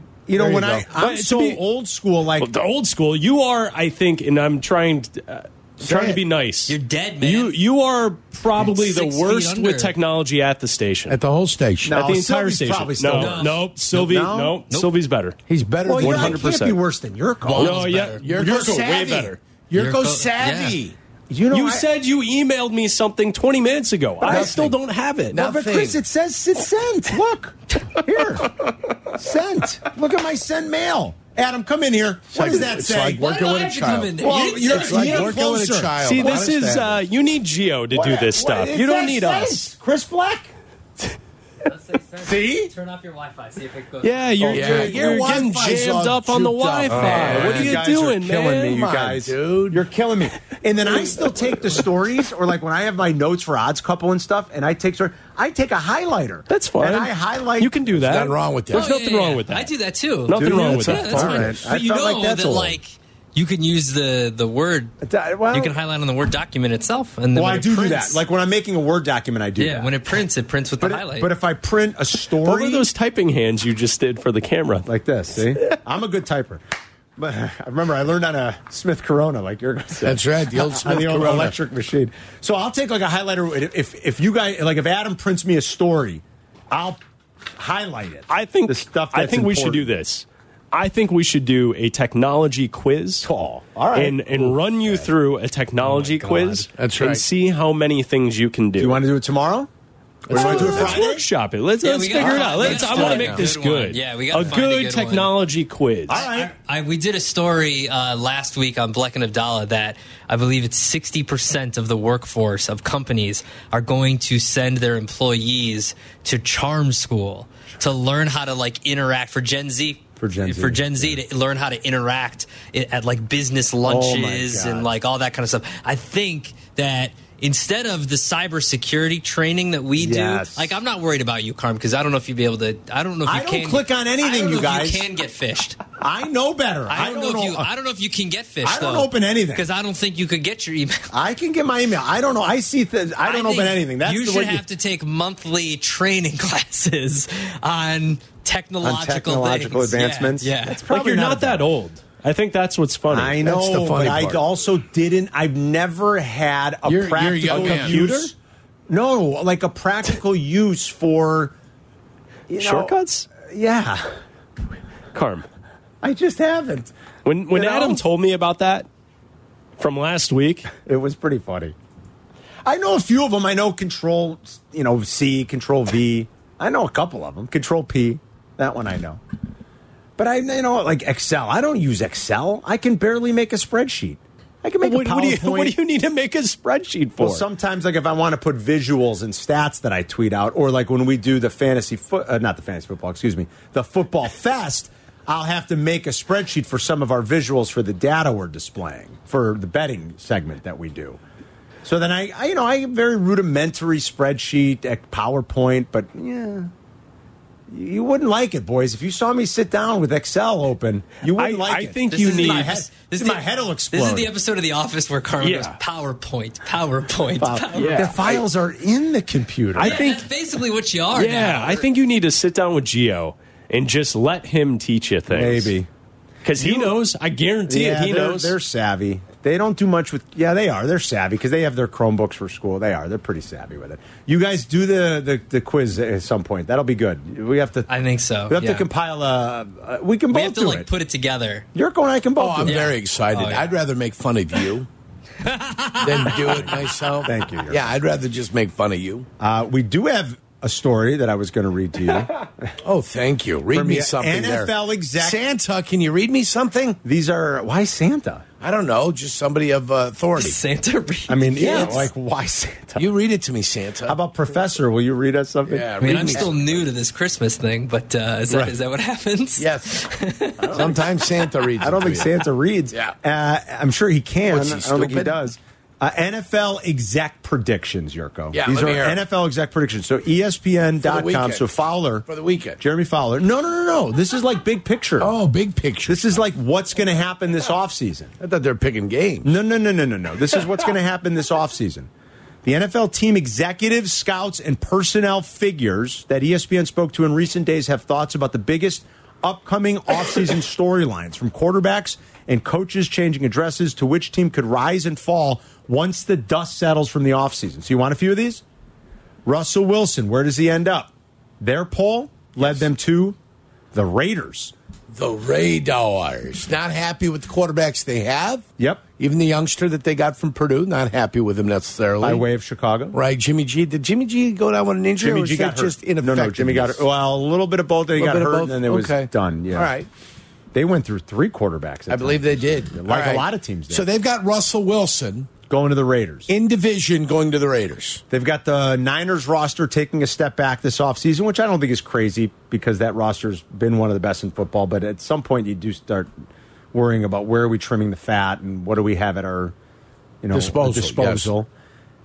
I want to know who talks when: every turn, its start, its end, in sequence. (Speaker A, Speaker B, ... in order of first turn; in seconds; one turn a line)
Speaker A: 0.3-2.5
Speaker B: 0.4-0.9
Speaker C: 0.9-1.6
Speaker C: 2.4-11.2
Speaker A: 5.8-6.2
Speaker B: 5.8-6.1
Speaker D: 6.7-7.5
Speaker D: 8.6-9.9
Speaker B: 11.1-12.0
Speaker A: 11.8-14.6
Speaker C: 12.0-15.4
Speaker D: 13.1-13.6
Speaker B: 15.5-16.6
Speaker A: 15.8-19.2
Speaker C: 15.9-16.8
Speaker B: 17.5-21.0
Speaker C: 17.5-19.4
Speaker D: 19.8-20.8
Speaker A: 21.3-21.9
Speaker C: 21.5-25.4
Speaker A: 24.2-24.8
Speaker B: 24.2-24.8
Speaker B: 25.3-26.0
Speaker A: 25.3-28.5
Speaker A: 29.1-33.3
Speaker B: 32.3-37.0
Speaker D: 32.5-35.4
Speaker A: 34.2-36.4
Speaker C: 36.0-39.6
Speaker A: 37.9-40.5
Speaker D: 41.6-44.8
Speaker A: 42.2-42.7
Speaker C: 44.0-48.9
Speaker A: 44.4-45.8
Speaker B: 44.5-47.8
Speaker A: 46.9-57.9
Speaker B: 48.6-49.9
Speaker B: 51.0-51.4
Speaker C: 56.5-59.7
Speaker B: 58.0-58.9
Speaker D: 58.7-65.0
Speaker C: 60.3-61.4
Speaker A: 60.4-62.8
Speaker B: 61.2-61.5
Speaker A: 65.0-65.7
Speaker D: 65.5-68.2
Speaker A: 67.3-70.0
Speaker D: 69.6-71.3
Speaker A: 70.8-72.9
Speaker C: 72.4-74.9
Speaker A: 74.8-76.6
Speaker A: 77.2-87.0
Speaker B: 80.0-81.6
Speaker A: 87.6-89.9
Speaker C: 88.3-93.3
Speaker A: 93.2-95.1
Speaker C: 93.9-99.0
Speaker D: 95.9-96.7
Speaker B: 96.8-97.2
Speaker A: 98.8-99.7
Speaker C: 100.3-106.2
Speaker B: 100.3-101.0
Speaker A: 100.3-101.3
Speaker D: 101.8-105.3
Speaker B: 102.2-102.4
Speaker A: 102.5-103.2
Speaker B: 103.1-103.4
Speaker A: 106.1-106.5
Speaker D: 106.1-135.8
Speaker A: 120.2-121.2
Speaker A: 123.8-124.9
Speaker A: 130.0-130.8
Speaker A: 133.3-135.1
Speaker A: 136.0-137.7
Speaker D: 136.9-141.1
Speaker A: 138.6-139.7
Speaker A: 141.1-144.6
Speaker D: 143.2-150.8
Speaker A: 148.8-151.7
Speaker C: 150.9-153.4
Speaker A: 153.1-158.3
Speaker B: 153.4-154.4
Speaker B: 156.9-158.1
Speaker C: 157.5-158.3
Speaker A: 158.9-161.5
Speaker A: 162.5-164.2
Speaker C: 162.5-163.3
Speaker C: 165.1-165.5
Speaker A: 166.0-166.9
Speaker C: 167.2-168.9
Speaker A: 167.5-168.0
Speaker C: 169.8-170.7
Speaker A: 170.9-171.8
Speaker A: 172.7-179.2
Speaker A: 180.2-185.8
Speaker C: 184.8-187.5
Speaker A: 187.2-201.2
Speaker A: 201.8-206.7
Speaker A: 207.7-214.3
Speaker C: 211.2-212.7
Speaker D: 212.1-218.1
Speaker C: 215.4-215.8
Speaker A: 217.4-220.0
Speaker C: 217.8-218.4
Speaker C: 219.8-220.3
Speaker D: 219.8-221.9
Speaker C: 221.1-225.7
Speaker A: 225.3-225.9
Speaker C: 226.4-228.5
Speaker A: 226.6-227.0
Speaker A: 227.7-237.9
Speaker D: 237.9-238.9
Speaker A: 238.5-240.9
Speaker D: 240.3-241.7
Speaker A: 241.8-242.9
Speaker B: 242.4-244.9
Speaker D: 242.6-243.8
Speaker D: 245.4-246.8
Speaker B: 246.0-249.3
Speaker A: 246.4-246.7
Speaker A: 247.2-247.9
Speaker A: 249.4-252.3
Speaker B: 252.8-257.0
Speaker A: 253.7-255.4
Speaker A: 257.0-258.5
Speaker B: 258.6-260.6
Speaker D: 260.4-262.0
Speaker A: 261.3-263.1
Speaker B: 261.6-262.1
Speaker B: 263.0-264.2
Speaker A: 264.1-266.5
Speaker B: 265.7-266.9
Speaker D: 266.0-271.3
Speaker A: 268.5-268.8
Speaker B: 269.6-270.0
Speaker A: 270.6-271.0
Speaker B: 270.7-272.3
Speaker A: 271.8-282.3
Speaker B: 274.5-275.4
Speaker B: 278.5-279.2
Speaker B: 281.0-281.7
Speaker B: 282.3-282.8
Speaker A: 282.8-285.3
Speaker B: 285.2-286.2
Speaker A: 286.1-288.3
Speaker B: 288.4-289.5
Speaker A: 289.4-292.1
Speaker A: 292.6-308.6
Speaker A: 309.5-313.4
Speaker A: 313.9-314.7
Speaker B: 315.1-318.7
Speaker A: 318.8-319.0
Speaker B: 319.2-322.5
Speaker A: 322.2-323.2
Speaker B: 323.1-327.0
Speaker A: 325.2-329.9
Speaker B: 328.2-330.1
Speaker A: 330.7-334.1
Speaker B: 332.1-335.5
Speaker A: 335.7-336.5
Speaker B: 336.5-338.2
Speaker A: 338.3-346.3
Speaker A: 346.9-349.8
Speaker A: 350.4-351.7
Speaker B: 350.5-351.5